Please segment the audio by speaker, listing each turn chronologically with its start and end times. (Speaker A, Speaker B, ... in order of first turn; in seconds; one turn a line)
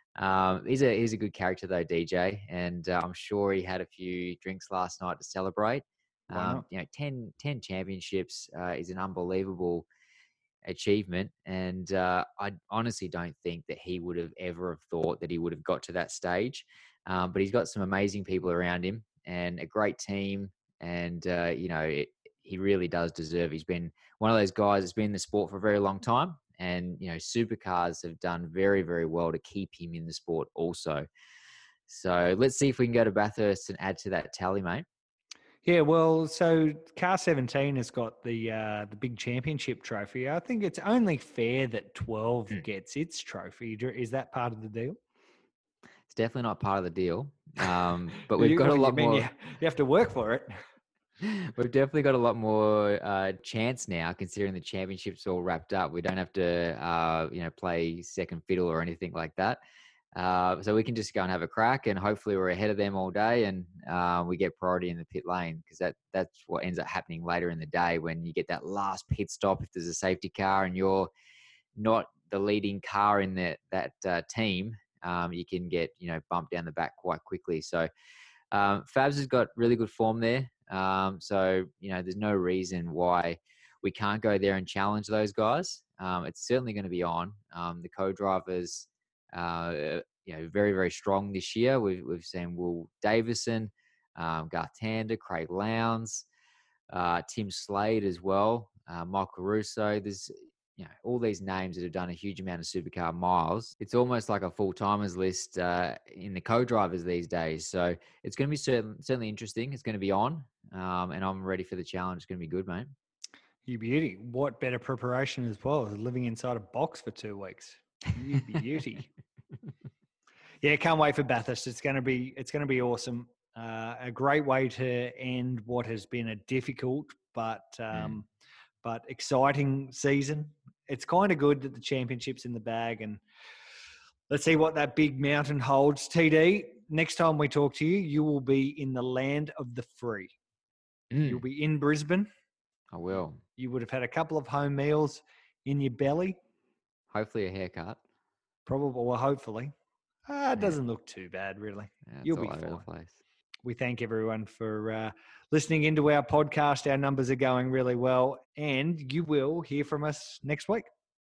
Speaker A: 0.2-9.8
Speaker B: 6.3-6.6
Speaker A: 10.6-31.1
Speaker A: 31.9-34.9
Speaker B: 35.6-45.0
Speaker A: 46.1-49.3
Speaker B: 48.3-50.6
Speaker A: 51.2-59.6
Speaker A: 60.1-71.1
Speaker A: 71.8-77.9
Speaker A: 78.5-96.2
Speaker A: 96.9-112.9
Speaker B: 113.7-119.1
Speaker B: 120.6-128.3
Speaker B: 128.8-133.2
Speaker B: 134.3-140.3
Speaker A: 141.1-141.4
Speaker B: 141.2-142.3
Speaker A: 142.9-143.4
Speaker B: 143.6-146.4
Speaker A: 147.1-148.0
Speaker B: 148.7-149.7
Speaker B: 150.2-152.8
Speaker A: 152.1-153.1
Speaker B: 153.6-160.9